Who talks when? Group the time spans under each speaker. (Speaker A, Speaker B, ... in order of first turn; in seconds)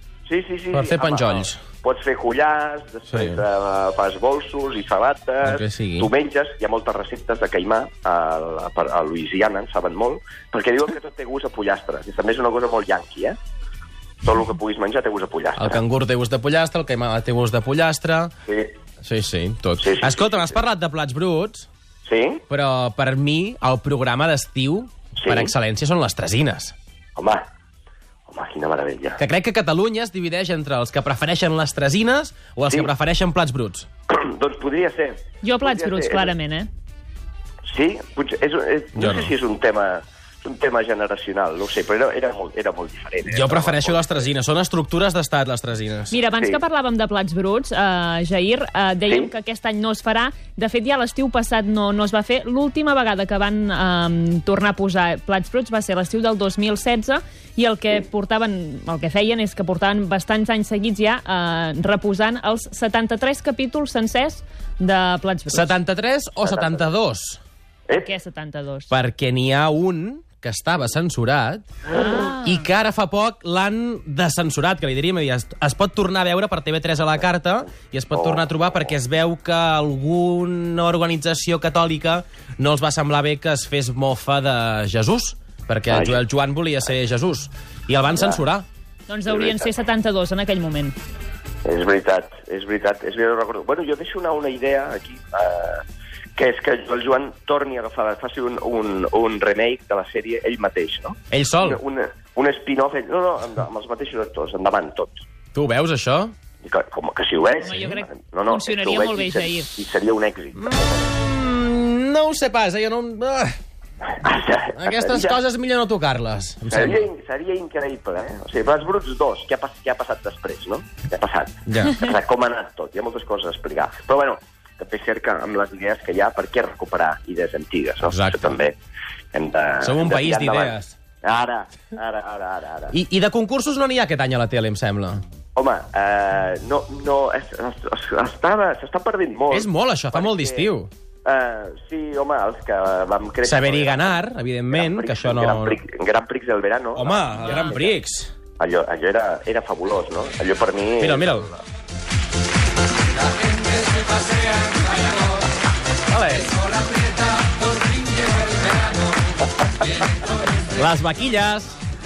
Speaker A: 0.3-13.4, 14.2-15.8, 18.4-18.7, 19.8-20.6, 22.1-22.4, 25.2-25.5, 27.2-27.5, 28.3-29.2, 34.1-36.3, 37.7-44.3, 49.1-49.3, 66.4-66.9, 78.1-78.7, 85.9-86.2, 88.1-88.4, 89.3-89.7, 91.7-95.8, 96.4-105.2, 106.6-111.1, 114.2-115.4, 116.7-128.8, 129.3-132.9, 135.6-140.7, 141.2-144.2, 144.7-148.0, 148.6-151.5
Speaker B: 0.7-1.6, 3.1-3.4, 5.4-6.1, 15.6-18.3, 19.0-21.7, 22.5-26.8, 29.2-33.9, 39.0-39.3, 43.3-46.2, 65.5-67.4, 68.9-71.7, 72.3-88.7, 101.3-101.8, 105.5-106.3, 107.7-107.9, 110.6-113.5, 114.7-117.0, 121.7-122.0, 128.0-128.6, 129.8-130.9, 132.9-135.2, 139.5-140.9, 143.4-145.8, 146.9-148.3, 151.0-151.5, 156.1-156.6, 160.8-161.8
Speaker C: 35.4-36.7, 46.1-65.7, 68.0-68.9, 71.9-72.6, 89.1-91.0, 107.6-109.7